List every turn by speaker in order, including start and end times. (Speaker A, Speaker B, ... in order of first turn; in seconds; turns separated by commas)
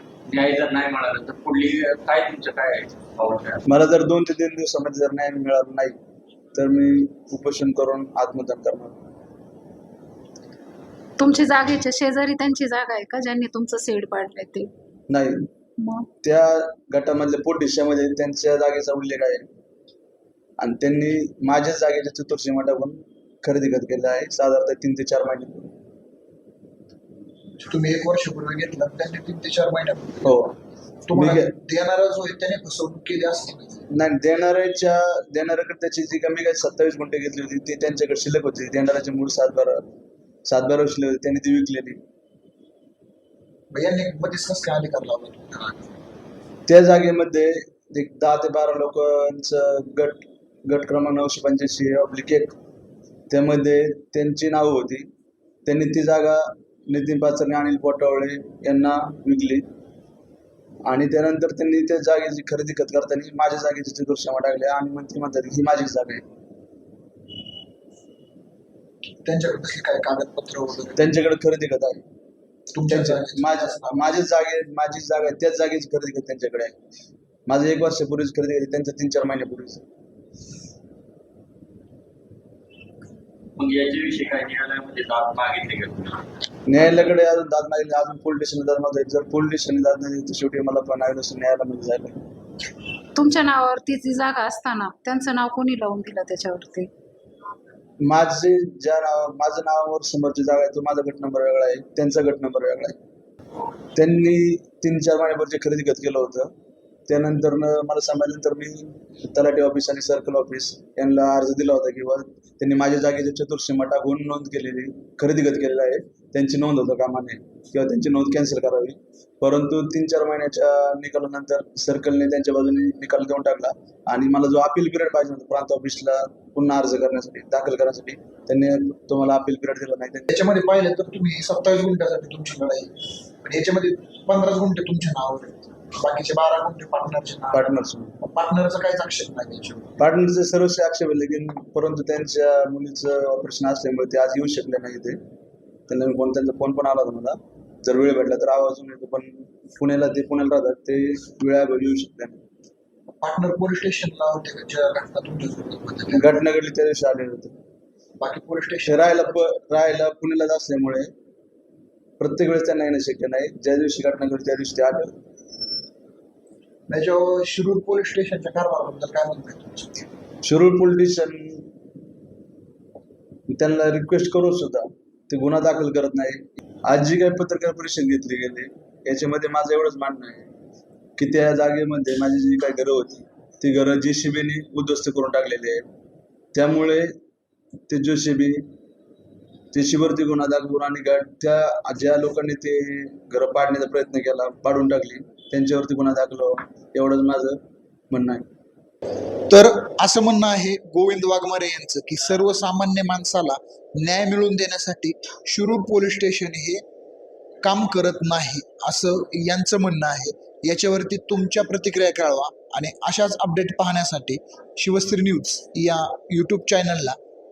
Speaker A: 0.3-3.6, Speaker B: 3.6-6.0, Speaker B: 6.5-8.9, Speaker C: 11.2-14.7, Speaker B: 15.1-15.5, Speaker C: 15.8-16.1, Speaker B: 16.2-19.4, Speaker B: 20.6-25.7, Speaker D: 27.6-30.3, Speaker B: 30.2-30.5, Speaker D: 31.1-33.8, Speaker B: 31.1-31.5, Speaker B: 33.9-39.8, Speaker B: 40.5-42.0, Speaker D: 43.7-45.9, Speaker B: 46.7-52.5, Speaker B: 53.3-55.1, Speaker B: 55.6-59.6, Speaker B: 60.9-66.2, Speaker D: 69.2-71.1, Speaker B: 71.0-72.0, Speaker D: 72.7-74.0, Speaker B: 72.9-76.7, Speaker B: 77.5-79.8, Speaker A: 83.6-86.2, Speaker B: 86.7-92.2, Speaker C: 93.2-96.9, Speaker B: 98.0-102.9, Speaker B: 104.0-106.5, Speaker B: 107.1-130.3, Speaker D: 130.3-137.7, Speaker B: 137.5-138.2, Speaker D: 138.2-139.9, Speaker B: 140.0-145.2, Speaker B: 145.9-152.4, Speaker D: 153.2-156.4, Speaker B: 156.1-157.5, Speaker D: 158.2-159.2, Speaker B: 158.8-161.1, Speaker B: 162.2-165.1, Speaker D: 166.9-170.0, Speaker B: 170.4-171.7, Speaker B: 173.5-180.5, Speaker B: 181.2-185.8, Speaker B: 186.5-187.1, Speaker B: 187.9-188.7, Speaker B: 189.7-197.6, Speaker B: 198.1-198.4, Speaker D: 199.5-206.8, Speaker D: 207.6-217.2